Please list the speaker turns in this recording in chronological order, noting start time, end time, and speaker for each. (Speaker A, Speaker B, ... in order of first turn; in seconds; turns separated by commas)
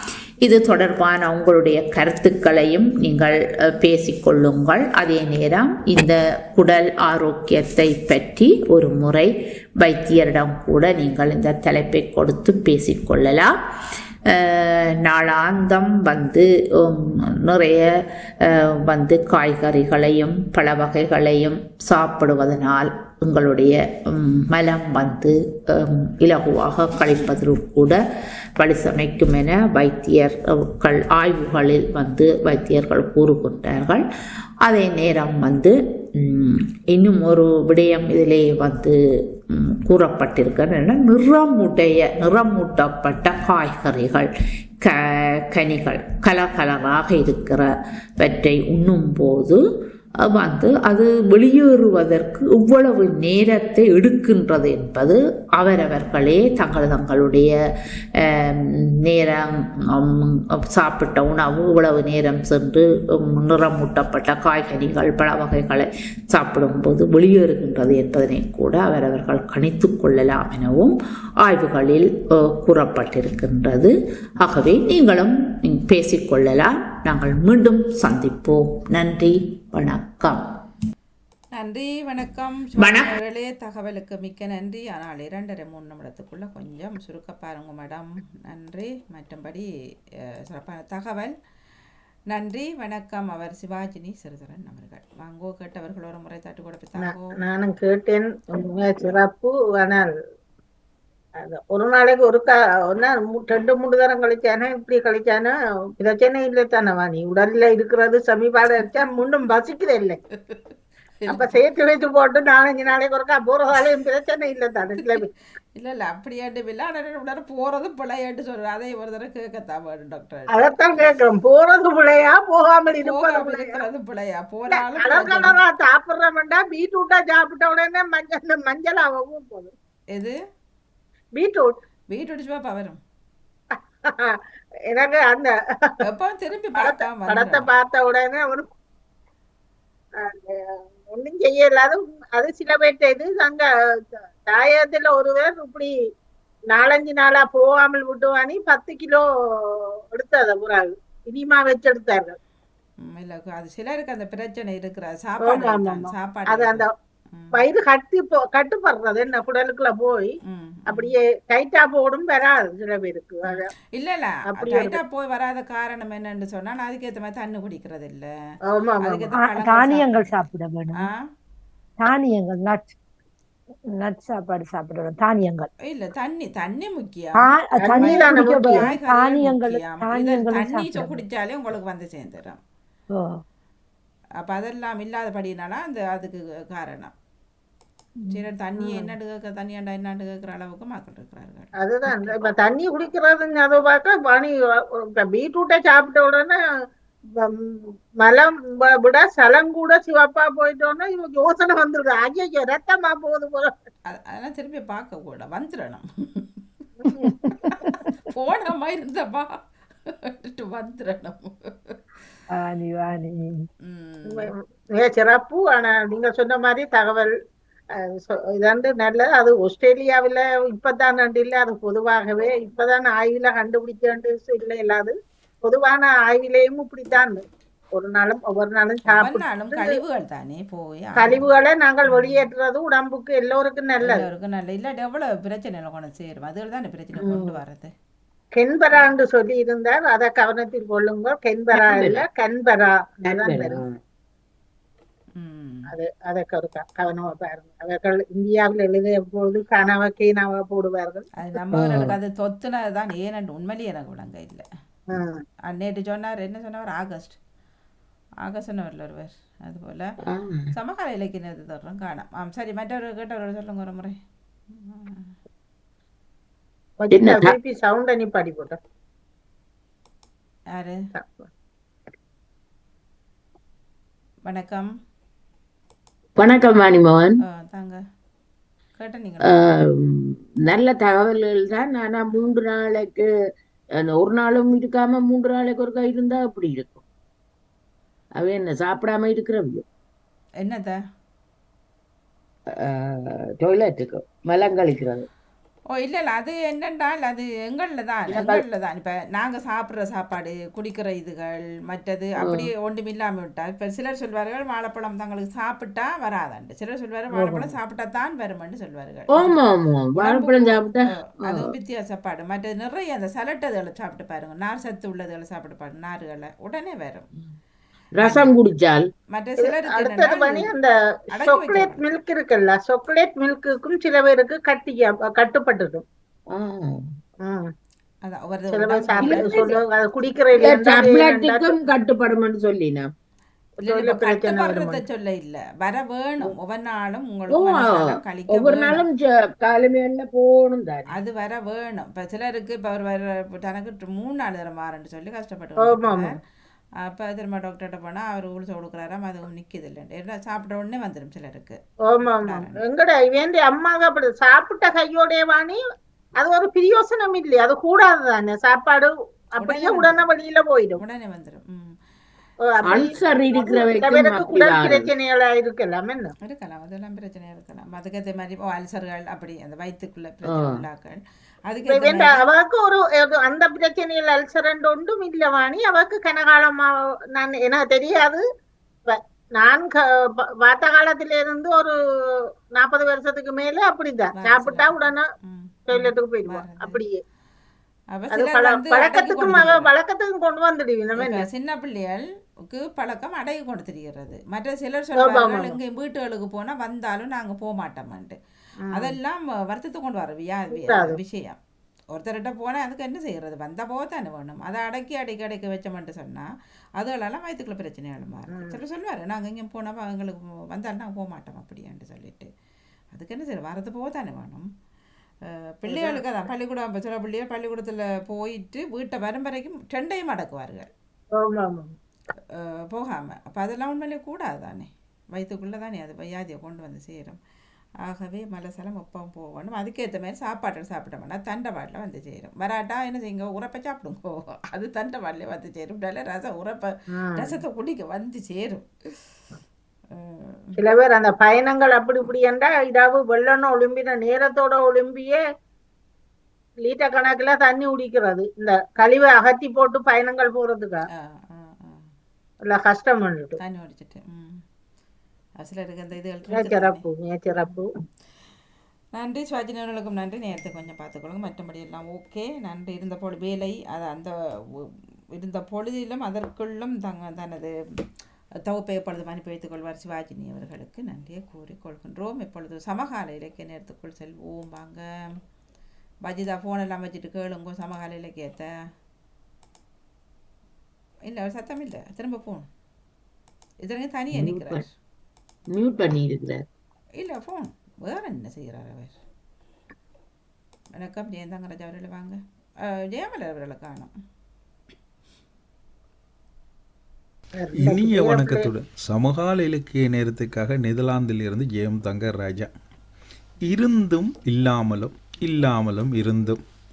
Speaker A: 0.4-13.5, Speaker A: 14.2-28.0, Speaker A: 28.6-34.0, Speaker A: 34.6-49.6, Speaker A: 50.2-57.5, Speaker A: 58.2-80.4, Speaker B: 81.5-89.7, Speaker A: 82.8-83.1, Speaker B: 90.5-91.3, Speaker B: 92.3-97.3, Speaker C: 97.0-100.1, Speaker C: 101.4-110.2, Speaker B: 111.2-111.6, Speaker C: 111.3-115.3, Speaker B: 115.8-121.1, Speaker C: 120.5-123.8, Speaker B: 123.0-125.6, Speaker C: 124.7-129.7, Speaker C: 131.3-131.7, Speaker B: 132.1-133.0, Speaker C: 133.7-134.4, Speaker C: 134.9-135.9, Speaker B: 136.1-137.7, Speaker C: 136.8-138.7, Speaker C: 140.2-145.9, Speaker C: 146.7-152.4, Speaker B: 153.0-157.6, Speaker C: 155.4-156.9, Speaker C: 157.5-160.3, Speaker B: 160.4-161.1, Speaker C: 160.9-163.7, Speaker B: 163.5-168.3, Speaker C: 164.6-165.0, Speaker C: 168.7-169.3, Speaker B: 169.0-170.5, Speaker D: 169.4-171.1, Speaker B: 171.0-171.3, Speaker D: 172.0-172.9, Speaker D: 173.9-175.7, Speaker B: 175.8-182.6, Speaker D: 177.4-181.2, Speaker C: 177.8-178.8, Speaker D: 183.1-183.4, Speaker B: 184.4-187.1, Speaker D: 188.2-189.1, Speaker B: 188.3-191.7, Speaker C: 191.8-196.6, Speaker C: 197.4-203.7, Speaker B: 204.1-206.5, Speaker B: 207.2-212.0, Speaker D: 207.3-207.9, Speaker D: 212.5-213.7, Speaker B: 213.8-214.5, Speaker C: 214.3-217.3, Speaker C: 218.0-227.4, Speaker C: 227.9-230.0, Speaker B: 229.1-231.5, Speaker C: 231.2-234.2, Speaker B: 232.1-232.4, Speaker B: 234.0-237.9, Speaker E: 237.2-237.5, Speaker C: 238.5-243.8, Speaker E: 241.8-242.2, Speaker E: 243.2-244.0, Speaker B: 245.4-245.9, Speaker C: 245.9-251.3, Speaker B: 251.4-254.6, Speaker E: 251.7-252.1, Speaker C: 255.1-255.4, Speaker B: 255.7-257.4, Speaker B: 258.4-260.1, Speaker E: 260.3-260.7, Speaker B: 260.7-264.2, Speaker B: 264.7-265.3, Speaker C: 267.0-268.8, Speaker E: 267.1-267.5, Speaker B: 270.7-271.0, Speaker C: 271.1-271.5, Speaker B: 274.4-274.9, Speaker E: 276.4-277.4, Speaker B: 277.4-278.0, Speaker B: 279.0-279.6, Speaker E: 279.5-283.3, Speaker E: 284.0-287.0, Speaker E: 288.4-289.8, Speaker B: 290.6-291.0, Speaker E: 292.8-295.3, Speaker B: 295.9-309.6, Speaker E: 298.3-298.6, Speaker E: 307.3-307.7, Speaker E: 309.3-311.7, Speaker B: 310.1-317.3, Speaker E: 318.2-319.1, Speaker B: 318.2-318.5, Speaker B: 319.3-320.7, Speaker C: 319.6-326.0, Speaker B: 321.3-322.1, Speaker E: 326.5-327.1, Speaker C: 327.4-327.7, Speaker B: 328.2-329.9, Speaker C: 328.7-331.7, Speaker E: 329.2-329.8, Speaker E: 330.6-333.1, Speaker C: 333.8-335.0, Speaker B: 333.8-339.0, Speaker E: 337.5-341.1, Speaker B: 341.1-346.3, Speaker C: 345.8-346.3, Speaker B: 347.0-351.8, Speaker C: 352.1-355.8, Speaker B: 352.4-352.8, Speaker C: 356.4-361.0, Speaker B: 359.6-360.2, Speaker B: 361.0-361.9, Speaker C: 362.6-366.3, Speaker E: 362.8-365.1, Speaker B: 366.4-372.4, Speaker E: 370.5-370.7, Speaker C: 371.9-378.4, Speaker C: 379.1-380.0, Speaker C: 380.6-381.9, Speaker C: 382.7-385.3, Speaker B: 384.4-387.0, Speaker C: 385.9-387.2, Speaker B: 388.1-389.9, Speaker C: 388.3-391.4, Speaker B: 391.2-398.4, Speaker C: 395.2-395.8, Speaker B: 398.9-401.6, Speaker C: 400.7-401.2, Speaker B: 402.1-412.5, Speaker B: 413.1-414.6, Speaker B: 415.8-420.9, Speaker C: 415.9-416.2, Speaker C: 421.4-421.9, Speaker B: 422.9-427.4, Speaker B: 428.0-438.9, Speaker C: 437.2-437.5, Speaker B: 440.1-440.7, Speaker C: 440.8-445.4, Speaker C: 446.8-451.0, Speaker B: 451.1-452.0, Speaker C: 452.6-453.6, Speaker B: 453.6-454.6, Speaker B: 455.6-457.0, Speaker C: 456.5-457.9, Speaker B: 459.1-467.7, Speaker B: 468.7-475.0, Speaker B: 476.2-478.7, Speaker B: 481.3-482.7, Speaker B: 483.8-484.9, Speaker E: 484.3-484.8, Speaker E: 485.7-486.6, Speaker B: 487.2-489.2, Speaker B: 491.0-492.4, Speaker B: 493.1-494.1, Speaker C: 497.6-498.7, Speaker F: 497.8-502.7, Speaker F: 503.6-506.6